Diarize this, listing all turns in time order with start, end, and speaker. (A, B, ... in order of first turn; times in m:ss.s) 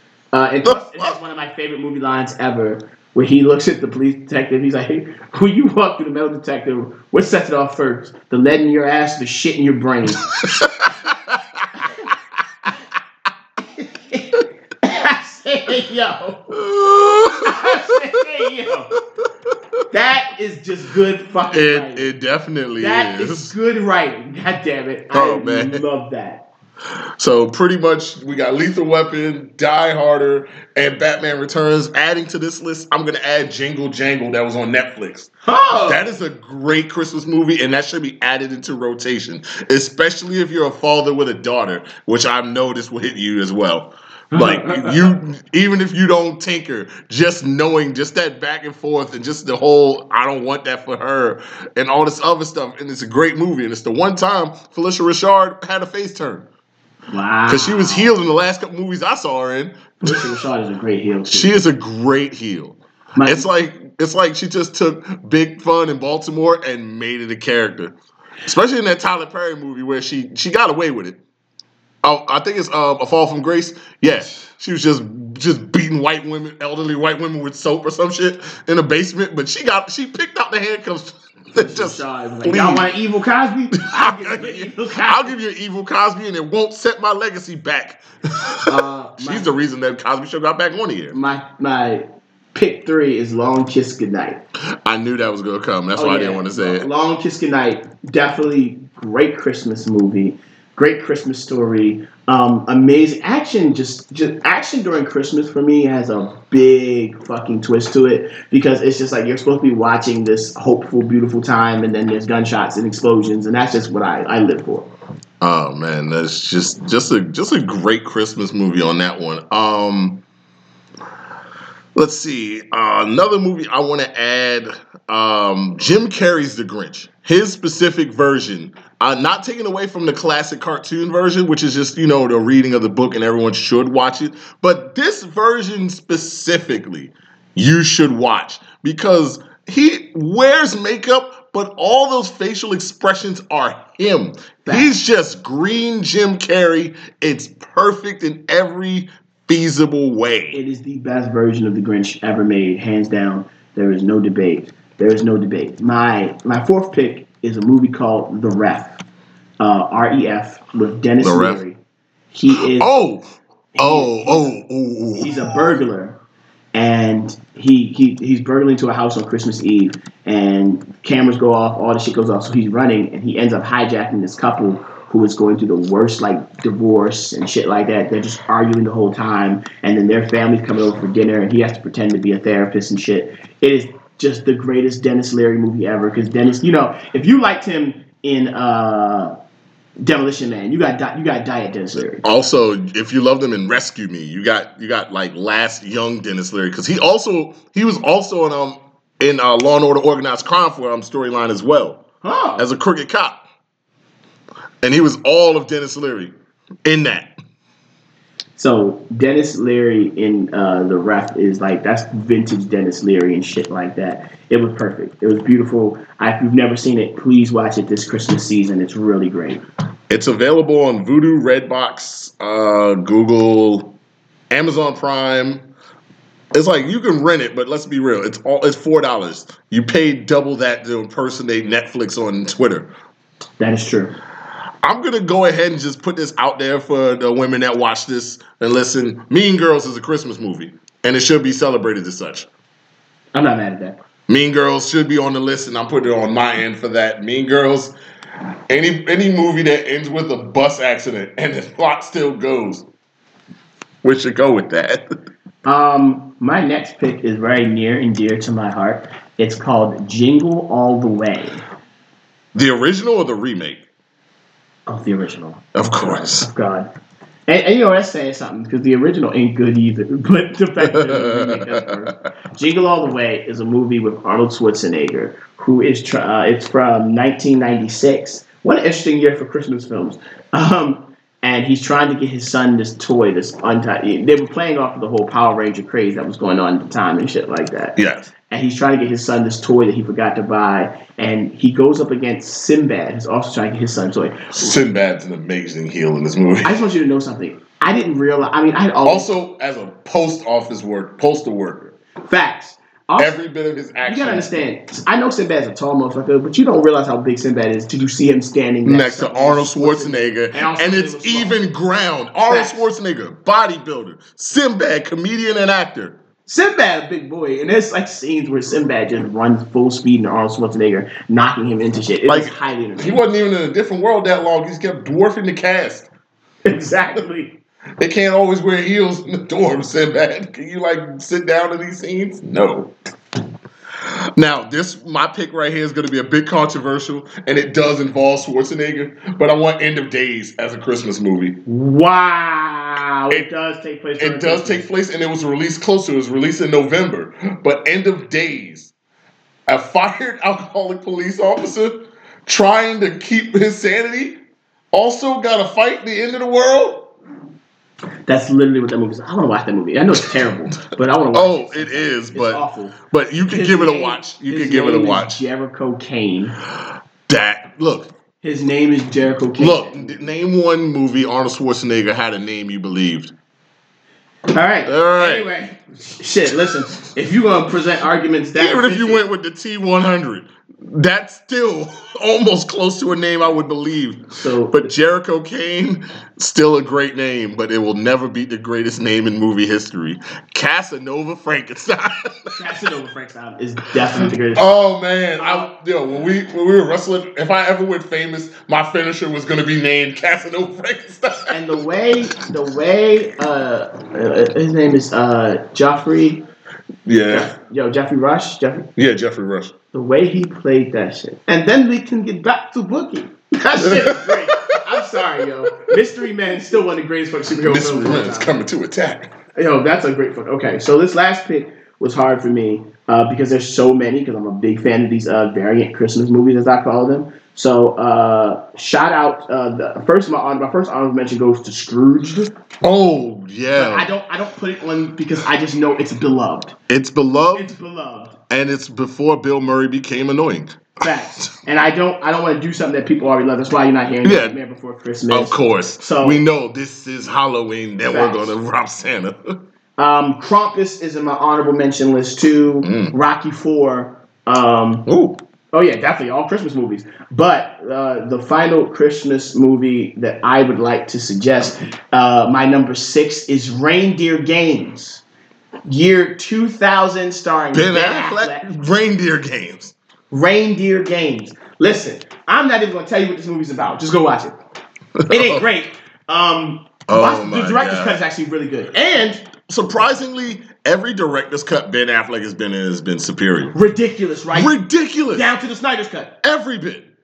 0:00.3-0:10.2 A
0:00.6-0:01.2 B
0:10.4-0:11.6 B
0:13.8-0:16.6 A
0:16.5-0:17.9 B
0:17.4-0:18.9 A
0:19.9-0:22.1 A
0:21.5-0:23.5 B
0:22.8-0:26.5 A
0:25.1-0:25.8 B
0:27.2-0:56.4 B
0:35.4-0:36.0 A
0:44.3-0:45.1 A
0:57.1-0:58.1 A
0:57.5-1:00.3 B
1:00.0-1:01.6 A
1:01.2-1:07.9 B
1:03.2-1:03.4 A
1:08.4-1:11.2 B
1:12.0-1:22.9 B
1:21.5-1:25.3 A
1:23.8-1:31.2 B
1:28.7-1:29.5 A
1:31.1-1:34.4 A
1:34.8-1:36.9 B
1:35.9-1:54.9 A
1:55.4-2:00.2 B
2:01.9-2:30.6 B
2:24.6-2:24.9 A
2:30.5-2:38.9 A
2:39.6-2:41.8 A
2:41.2-2:41.6 B
2:42.3-2:42.9 A
2:42.6-2:43.2 B
2:43.7-2:44.5 A
2:43.8-2:45.7 B
2:45.2-2:46.2 A
2:46.7-3:09.3 A
3:10.0-3:12.2 A
3:12.2-3:22.0 B
3:22.2-3:22.6 A
3:22.6-3:23.4 B
3:24.8-3:26.3 B
3:26.8-3:27.3 B
3:28.6-3:39.6 A
3:40.1-3:43.9 B
3:44.5-3:45.7 B
3:46.5-3:52.9 B
3:53.6-3:54.1 A
3:54.8-4:02.5 B
4:03.3-4:04.0 A
4:04.3-4:07.9 B
4:08.7-4:12.8 B
4:14.0-4:15.0 B
4:15.6-4:21.6 A
4:22.5-4:23.8 B
4:24.9-4:26.9 A
4:25.7-4:26.5 B
4:27.5-4:48.0 A
4:30.8-4:31.8 B
4:48.0-4:48.3 B
4:48.5-4:54.8 A
4:54.5-4:56.8 B
4:56.6-4:59.3 A
4:59.0-5:01.9 B
5:02.2-5:03.4 A
5:03.2-5:04.7 B
5:04.0-5:11.6 A
5:08.8-5:16.2 B
5:12.4-5:12.9 A
5:16.4-5:23.2 A
5:22.3-5:26.1 B
5:26.6-5:27.5 A
5:28.0-5:32.9 B
5:34.3-5:41.6 B
5:41.6-5:44.8 A
5:44.2-5:48.9 B
5:49.7-5:54.4 B
5:54.9-5:57.1 B
5:58.3-6:03.0 A
6:01.3-6:05.4 B
6:03.5-6:06.6 A
6:07.3-6:08.1 B
6:08.4-6:10.2 A
6:09.6-6:13.3 B
6:14.5-6:19.2 A
6:14.8-6:15.5 B
6:18.6-6:32.6 B
6:24.4-6:24.9 A
6:32.6-6:34.6 A
6:34.5-6:41.8 B
6:35.4-6:35.7 A
6:41.5-6:46.4 A
6:47.1-6:47.5 B
6:47.3-6:48.9 A
6:49.0-6:49.7 B
6:49.9-6:58.6 A
6:53.8-6:54.4 B
6:57.6-6:59.3 B
6:59.6-7:12.5 A
7:12.8-7:14.1 B
7:13.7-7:16.7 A
7:16.9-7:17.7 B
7:17.5-7:18.4 A
7:18.5-7:21.5 B
7:21.0-7:26.4 A
7:24.2-7:24.6 B
7:25.3-7:29.4 B
7:28.1-7:28.6 A
7:30.0-7:35.0 A
7:32.8-7:33.1 B
7:35.0-7:35.4 B
7:35.7-7:45.2 A
7:45.8-7:48.6 A
7:47.7-7:49.9 B
7:50.3-7:54.6 A
7:55.2-7:55.6 B
7:55.3-7:59.5 A
7:57.1-7:58.2 B
7:59.7-8:03.7 B
8:03.7-8:04.8 A
8:04.5-8:05.5 B
8:05.3-8:06.4 A
8:06.4-8:07.0 B